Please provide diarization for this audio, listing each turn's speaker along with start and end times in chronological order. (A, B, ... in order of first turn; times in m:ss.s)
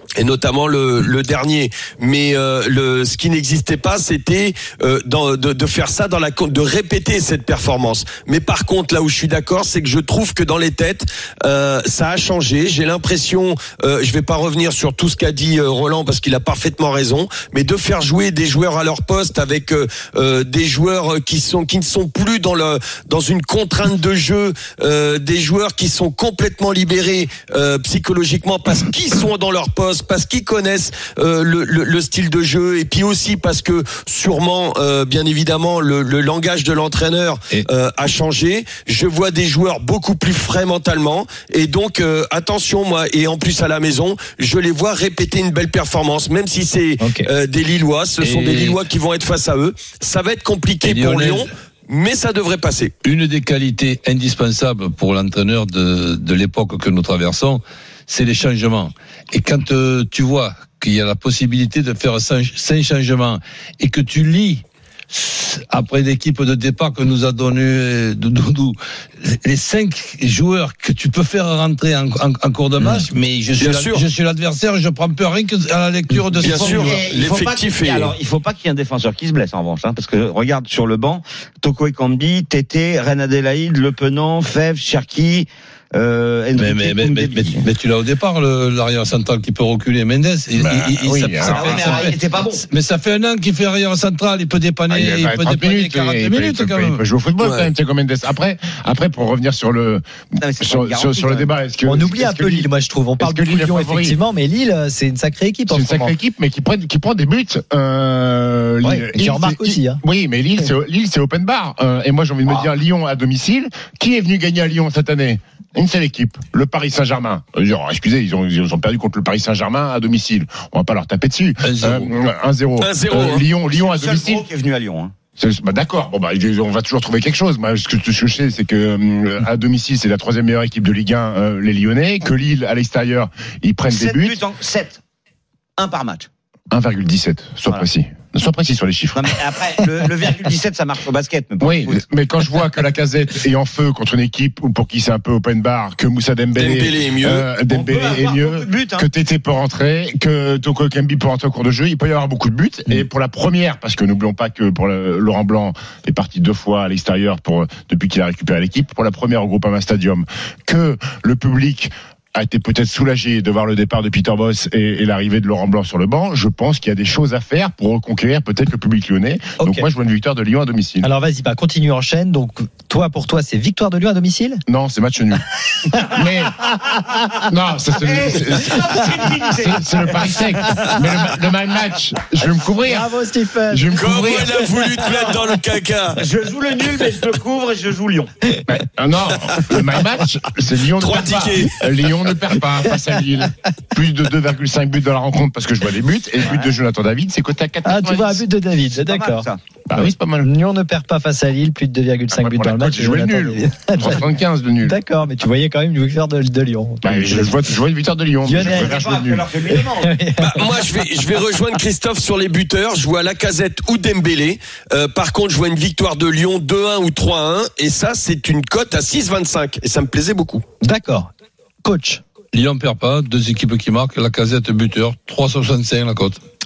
0:00.2-0:52.9 A
0:47.0-0:47.3 B
0:48.2-0:48.8 C
0:50.8-0:51.5 C
0:53.0-1:17.0 C
1:12.8-1:13.0 B
1:13.6-1:14.0 A
1:16.4-1:27.6 D
1:16.4-1:18.1 A
1:26.5-1:37.0 C
1:30.6-1:32.1 E
1:31.4-1:32.6 D
1:34.9-1:40.0 E
1:37.4-1:37.7 A
1:40.4-1:41.5 D
1:40.6-1:42.7 E
1:41.8-1:46.1 B
1:43.2-1:44.2 E
1:45.7-2:04.4 E
1:48.8-1:50.0 B
2:01.6-2:02.1 C
2:02.8-2:03.4 A
2:03.2-2:05.1 D
2:05.4-2:14.4 E
2:13.9-2:15.0 D
2:15.8-2:16.3 D
2:16.7-2:19.4 E
2:19.1-2:22.0 D
2:21.6-2:51.1 E
2:26.6-2:27.4 A
2:27.7-2:29.0 D
2:49.6-2:49.9 B
2:51.0-2:54.6 B
2:54.7-3:03.1 E
2:55.9-2:56.2 B
2:58.0-3:01.0 D
3:02.8-3:04.4 B
3:03.7-3:04.6 E
3:04.0-3:06.2 A
3:06.1-3:08.3 D
3:08.6-3:18.4 E
3:09.5-3:09.8 A
3:11.0-3:11.8 A
3:16.4-3:16.7 D
3:17.8-3:24.2 B
3:18.9-3:19.6 D
3:19.9-3:20.5 E
3:22.3-3:25.0 E
3:24.8-3:27.7 B
3:27.0-3:29.5 E
3:28.4-3:29.0 B
3:28.6-3:30.1 D
3:29.7-3:30.6 B
3:30.4-3:40.6 A
3:40.8-3:41.3 B
3:41.8-3:42.2 B
3:42.5-3:46.4 C